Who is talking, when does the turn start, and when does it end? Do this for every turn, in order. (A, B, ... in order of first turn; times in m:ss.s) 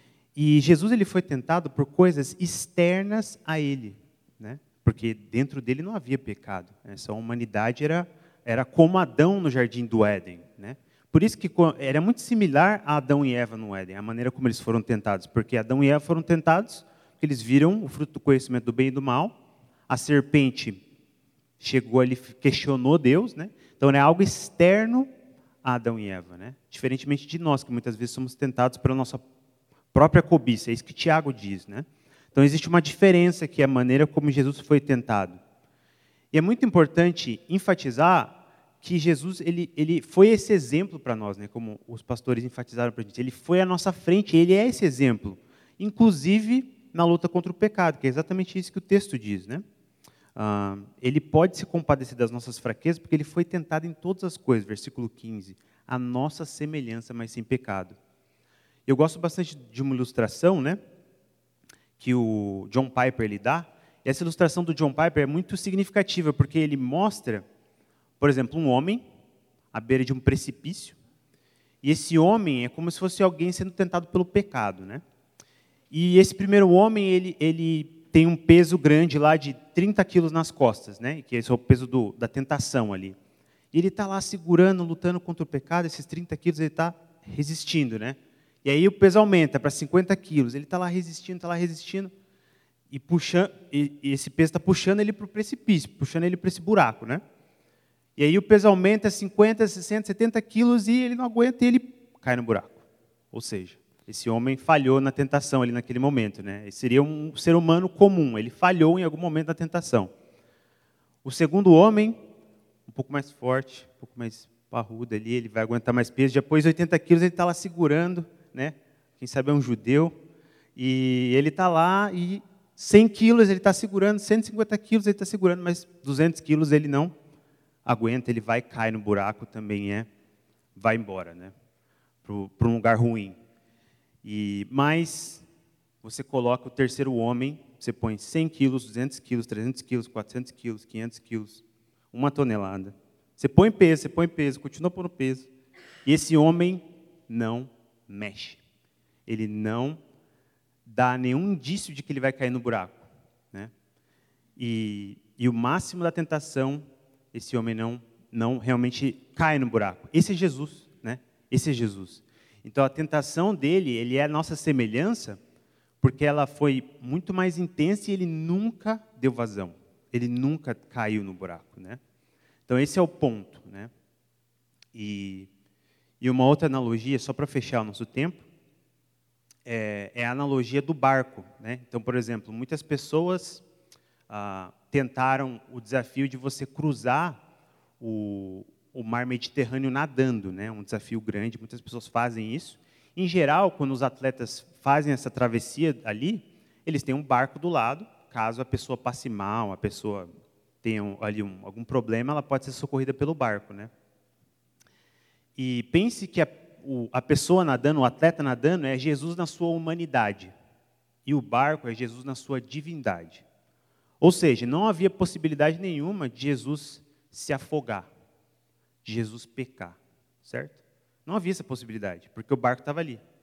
0:00.4-0:20.8 A
0:21.6-0:29.2 A
0:29.9-0:35.4 A
0:36.3-0:49.6 A
0:50.4-0:58.0 A
0:58.9-1:00.8 A
1:02.0-1:07.5 A
1:08.2-1:09.1 A
1:09.7-1:11.0 A
1:11.8-1:15.0 A
1:15.9-1:23.2 A
1:23.7-1:32.1 A
1:32.9-1:37.2 A
1:38.2-1:50.1 A
1:51.2-1:52.3 A
1:52.9-2:00.2 A
2:00.8-2:07.2 A
2:07.8-2:10.1 A
2:10.8-2:11.5 A
2:12.2-2:13.4 A
2:14.2-2:15.4 A
2:16.0-2:25.5 A
2:26.0-2:28.6 A
2:29.3-2:30.0 A
2:30.9-2:33.7 A
2:34.6-2:45.4 A
2:46.0-2:52.0 A
2:52.7-2:53.9 A
2:54.9-2:55.5 A
2:56.2-2:58.5 A
2:59.6-3:03.6 A
3:04.3-3:07.4 A
3:08.0-3:23.9 A
3:25.6-3:30.5 A
3:31.2-3:33.4 A
3:34.2-3:38.1 A
3:39.0-3:43.2 A